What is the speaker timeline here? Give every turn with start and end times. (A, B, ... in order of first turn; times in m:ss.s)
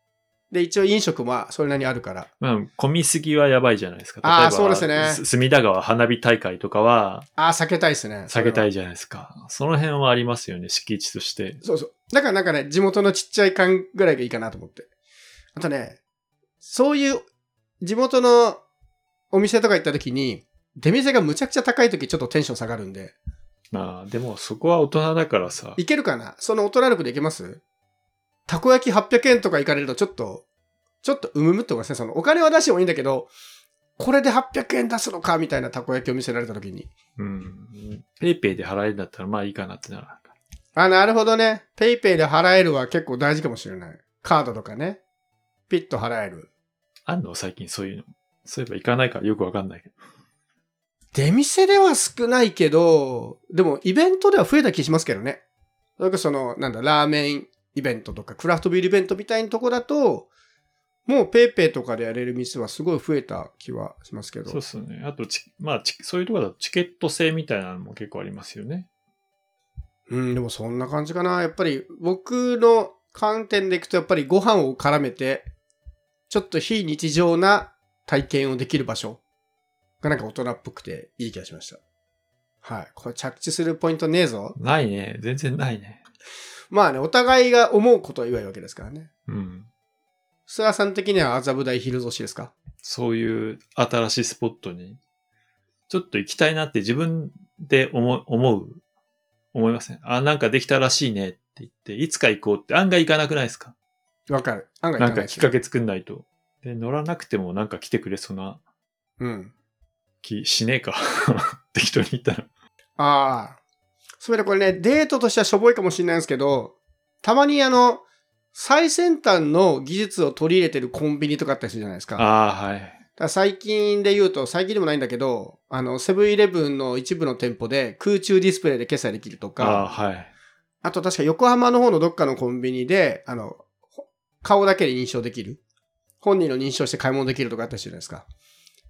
0:00.5-0:02.3 A
0:02.4-0:07.3 B
0:04.2-0:05.2 A
0:07.4-0:08.6 A
0:08.3-0:11.6 B
0:11.6-0:14.9 A
0:15.5-0:16.0 A
0:16.6-0:17.2 A
0:17.8-0:18.6 A
0:19.3-0:23.2 A
0:23.7-0:25.8 B
0:25.8-0:27.6 A
0:28.5-0:30.4 A
0:31.0-0:33.3 A
0:34.0-0:36.9 A
0:37.2-0:40.3 B
0:40.8-0:45.0 A
0:45.7-0:46.5 A
0:47.0-0:49.9 B
0:51.1-0:55.4 A
0:56.0-1:00.3 A
1:01.1-1:04.6 A
1:04.5-1:08.9 B
1:10.1-1:15.5 A
1:16.3-1:19.2 A
1:20.0-1:21.8 A
1:22.6-1:24.6 A
1:24.6-1:26.0 B
1:26.7-1:29.1 A
1:29.3-1:29.7 B
1:30.5-1:32.5 A
1:32.8-1:35.0 B
1:35.9-1:38.8 B
1:39.5-1:43.7 B
1:44.3-1:45.5 A
1:45.0-1:48.6 B
1:49.2-1:49.5 A
1:50.2-1:52.5 B
1:53.0-1:53.6 A
1:54.2-2:02.2 A
2:02.2-2:03.0 B
2:03.2-2:09.9 A
2:09.6-2:10.3 B
2:10.8-2:13.6 A
2:14.4-2:15.6 A
2:16.2-2:18.2 A